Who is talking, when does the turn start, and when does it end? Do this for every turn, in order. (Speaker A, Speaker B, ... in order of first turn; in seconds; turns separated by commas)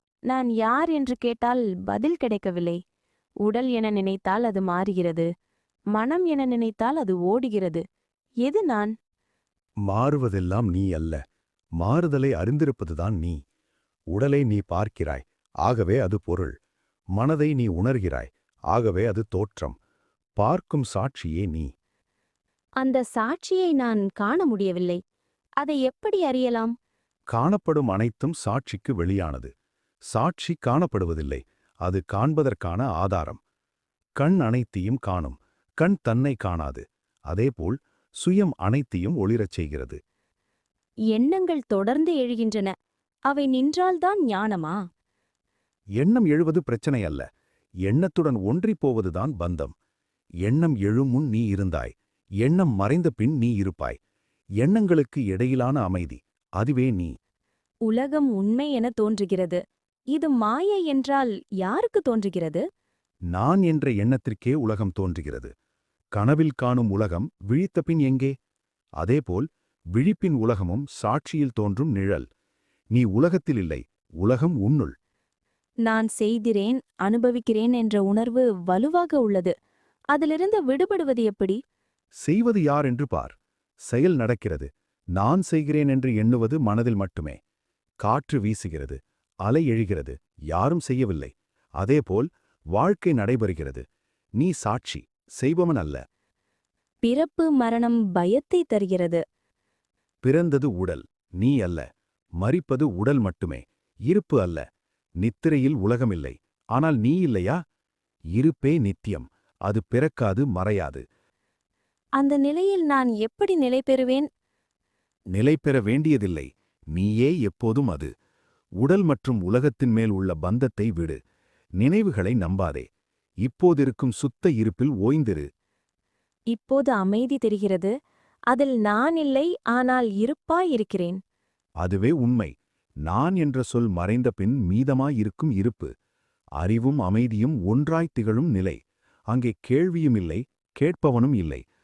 Speaker A: 0.3-2.8, Speaker A: 3.4-5.3, Speaker A: 5.9-7.8, Speaker A: 8.4-8.9, Speaker B: 9.9-11.2, Speaker B: 11.8-13.4, Speaker B: 14.1-16.5, Speaker B: 17.2-19.8, Speaker B: 20.4-21.7, Speaker A: 22.8-25.0, Speaker A: 25.6-26.7, Speaker B: 27.3-29.5, Speaker B: 30.1-33.4, Speaker B: 34.2-40.0, Speaker A: 41.1-42.7, Speaker A: 43.3-44.8, Speaker B: 46.0-47.2, Speaker B: 47.9-49.7, Speaker B: 50.4-54.0, Speaker B: 54.6-57.1, Speaker A: 57.9-59.6, Speaker A: 60.1-62.6, Speaker B: 63.3-65.5, Speaker B: 66.2-68.3, Speaker B: 69.0-72.3, Speaker B: 72.9-74.9, Speaker A: 75.9-79.5, Speaker A: 80.1-81.6, Speaker B: 82.2-83.3, Speaker B: 83.9-87.4, Speaker B: 88.0-93.8, Speaker B: 94.4-96.0, Speaker A: 97.0-99.2, Speaker B: 100.2-101.9, Speaker B: 102.4-104.6, Speaker B: 105.2-107.6, Speaker B: 108.3-111.0, Speaker A: 112.2-114.3, Speaker B: 115.3-118.1, Speaker B: 118.8-121.2, Speaker B: 121.8-122.9, Speaker B: 123.4-125.5, Speaker A: 126.5-127.9, Speaker A: 128.5-131.2, Speaker B: 131.8-132.5, Speaker B: 133.1-135.9, Speaker B: 136.6-138.8, Speaker B: 139.3-141.6